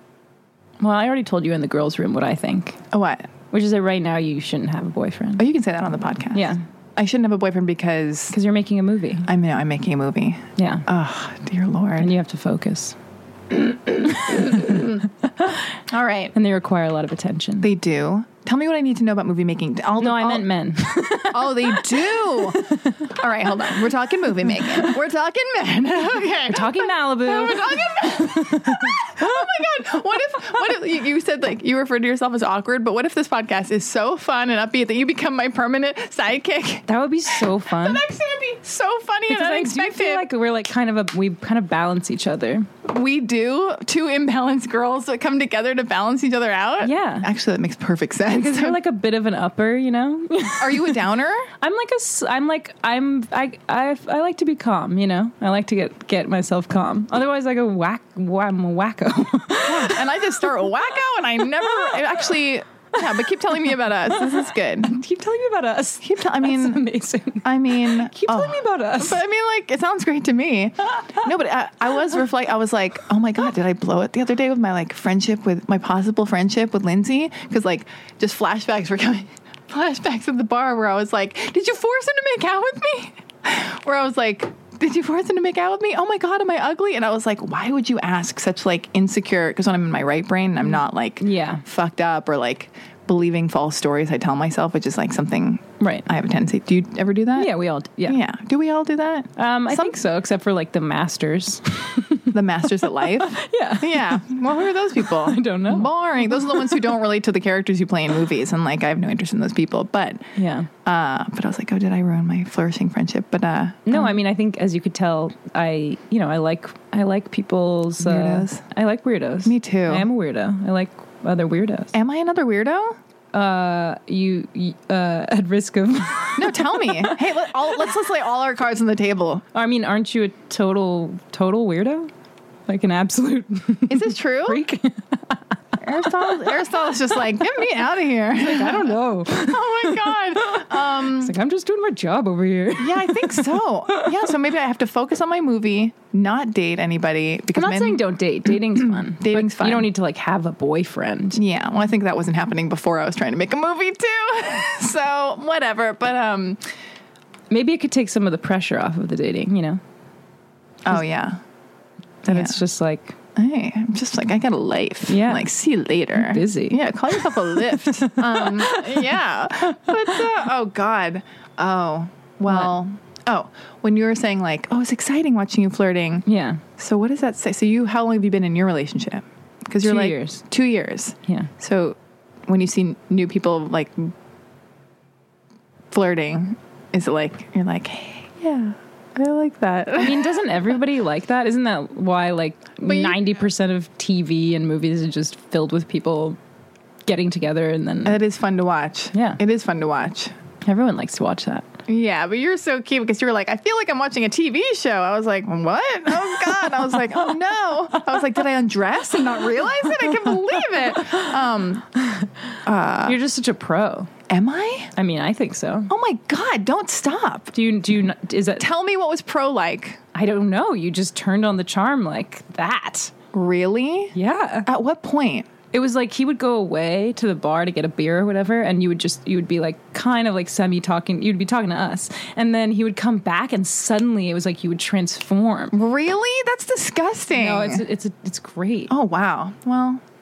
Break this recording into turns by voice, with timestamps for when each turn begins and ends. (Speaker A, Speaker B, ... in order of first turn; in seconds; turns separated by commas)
Speaker A: 0.8-2.8, Speaker B: 2.9-3.3, Speaker A: 3.5-5.4, Speaker B: 5.4-8.4, Speaker A: 6.3-6.6, Speaker A: 8.3-9.3, Speaker B: 9.3-12.1, Speaker A: 10.6-10.8, Speaker A: 12.0-13.0, Speaker A: 13.5-15.7, Speaker B: 14.6-14.9, Speaker B: 15.9-16.3, Speaker A: 16.3-17.7, Speaker B: 17.6-40.3, Speaker A: 20.0-23.8, Speaker A: 24.4-24.9, Speaker A: 26.5-29.3, Speaker A: 36.9-38.0, Speaker A: 39.3-42.7, Speaker B: 42.8-48.8, Speaker A: 46.8-47.3, Speaker A: 48.3-51.0, Speaker B: 50.6-51.5, Speaker A: 51.6-60.3, Speaker B: 59.6-65.0, Speaker A: 63.0-69.2, Speaker B: 66.0-66.8, Speaker B: 67.4-97.5, Speaker A: 90.7-91.6, Speaker A: 95.8-96.1, Speaker A: 97.4-98.2, Speaker B: 98.1-100.0, Speaker A: 99.4-107.0, Speaker B: 102.3-110.3, Speaker A: 110.4-110.7, Speaker B: 110.8-114.2, Speaker A: 113.9-121.9, Speaker B: 118.0-118.6, Speaker B: 119.5-120.1, Speaker B: 121.9-123.0, Speaker A: 123.3-127.5, Speaker B: 126.4-129.4, Speaker A: 129.5-132.1, Speaker A: 132.7-136.7, Speaker B: 133.9-134.6, Speaker B: 135.8-141.3, Speaker A: 138.4-144.3, Speaker B: 142.8-148.0, Speaker A: 147.5-151.4, Speaker B: 148.8-149.9, Speaker B: 151.3-156.7, Speaker A: 157.5-159.8, Speaker B: 160.9-161.4, Speaker A: 162.2-163.1, Speaker B: 162.3-162.6, Speaker B: 163.4-176.2, Speaker A: 165.1-165.5, Speaker A: 166.2-169.1, Speaker A: 172.5-172.7, Speaker A: 176.3-176.6, Speaker B: 176.8-184.1, Speaker A: 179.8-180.4, Speaker B: 185.9-190.5, Speaker A: 190.0-196.4, Speaker B: 192.8-193.2, Speaker A: 197.1-198.2, Speaker B: 198.1-200.3, Speaker A: 199.1-199.4, Speaker A: 200.6-201.7, Speaker B: 201.9-211.9, Speaker B: 212.6-213.2, Speaker A: 213.0-214.1, Speaker B: 214.3-214.9, Speaker A: 215.0-215.9, Speaker B: 215.9-217.5, Speaker A: 217.5-218.7, Speaker B: 218.6-220.0, Speaker A: 220.1-223.1, Speaker B: 223.3-225.5, Speaker A: 224.2-224.7, Speaker A: 225.7-235.8, Speaker B: 235.7-237.8, Speaker A: 237.3-238.9, Speaker B: 238.9-240.0